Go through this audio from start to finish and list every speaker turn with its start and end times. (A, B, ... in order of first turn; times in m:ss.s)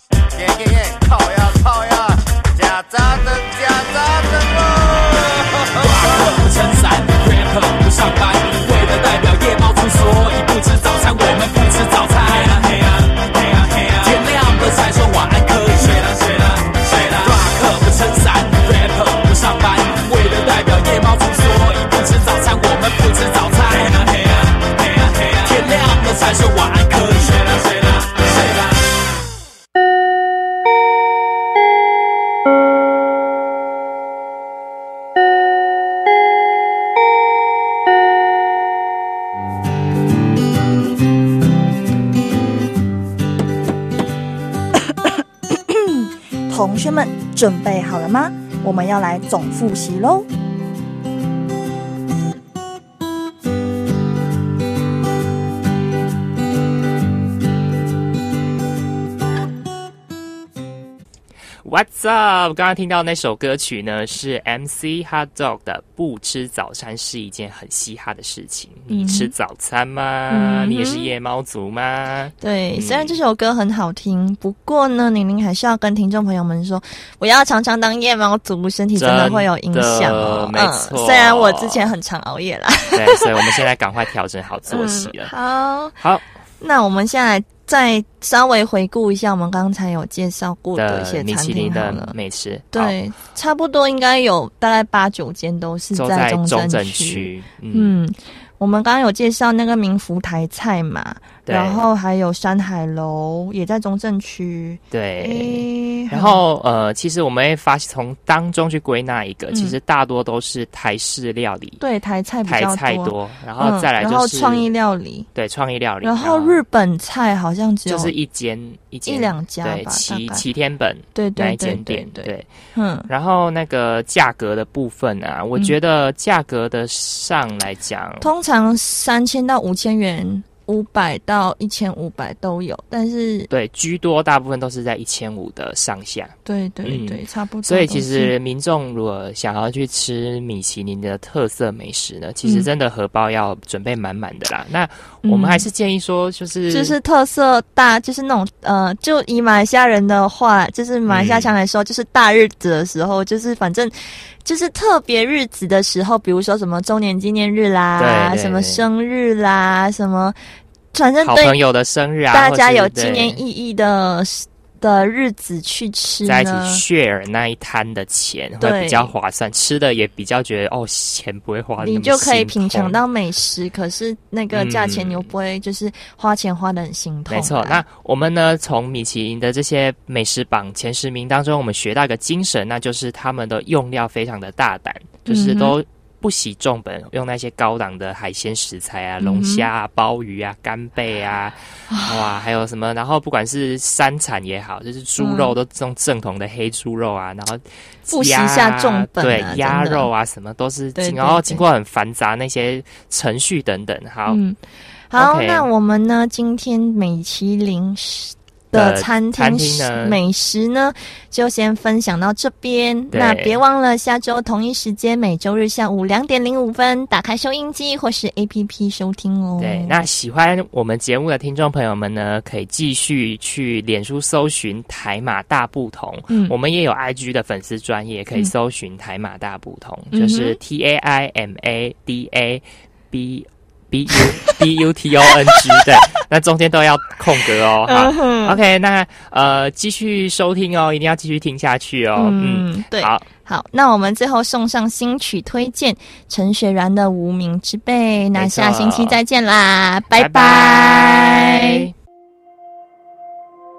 0:00.3-0:06.3 A
0:05.8-0:28.8 B
0:45.6-0:50.3 C
1:01.6-1:13.2 D
1:08.9-1:09.3 E
1:10.3-1:11.1 E
1:12.4-1:23.5 E
1:19.0-1:21.9 D
1:22.9-1:25.3 D
1:24.7-1:25.9 E
1:26.0-1:26.2 D
1:26.6-1:32.1 E
1:30.8-1:33.0 D
1:32.7-1:46.4 E
1:35.9-1:37.9 D
1:41.4-1:41.8 D
1:44.9-1:51.8 D
1:49.5-1:49.8 E
1:51.8-1:55.3 E
1:52.4-1:54.7 D
1:55.3-1:56.6 D
1:56.0-1:58.1 E
1:57.9-2:02.5 D
1:59.0-2:00.4 E
2:01.1-2:03.1 E
2:03.1-2:08.3 D
2:08.2-2:13.5 E
2:13.5-2:27.0 D
2:16.4-2:18.3 E
2:25.2-2:25.6 E
2:26.7-2:40.4 E
2:31.1-2:31.5 D
2:38.0-2:38.8 D
2:40.9-2:41.6 E
2:41.2-2:43.4 D
2:42.3-2:46.8 E
2:46.2-2:53.0 D
2:48.6-2:49.1 E
2:51.8-2:57.8 E
2:54.5-2:55.3 D
2:57.3-3:24.4 D
3:05.3-3:05.8 E
3:09.2-3:09.7 E
3:11.9-3:12.2 E
3:15.2-3:15.5 E
3:18.1-3:20.1 E
3:21.0-3:21.6 E
3:24.3-3:24.6 E
3:25.1-3:40.0 E
3:25.1-3:25.7 D
3:28.7-3:30.2 D
3:33.1-3:33.6 D
3:39.6-4:03.2 D
3:50.1-3:50.6 E
3:55.5-3:56.0 E
3:57.8-3:58.6 E
4:02.2-4:11.8 E
4:08.4-4:09.2 D
4:10.1-4:11.8 D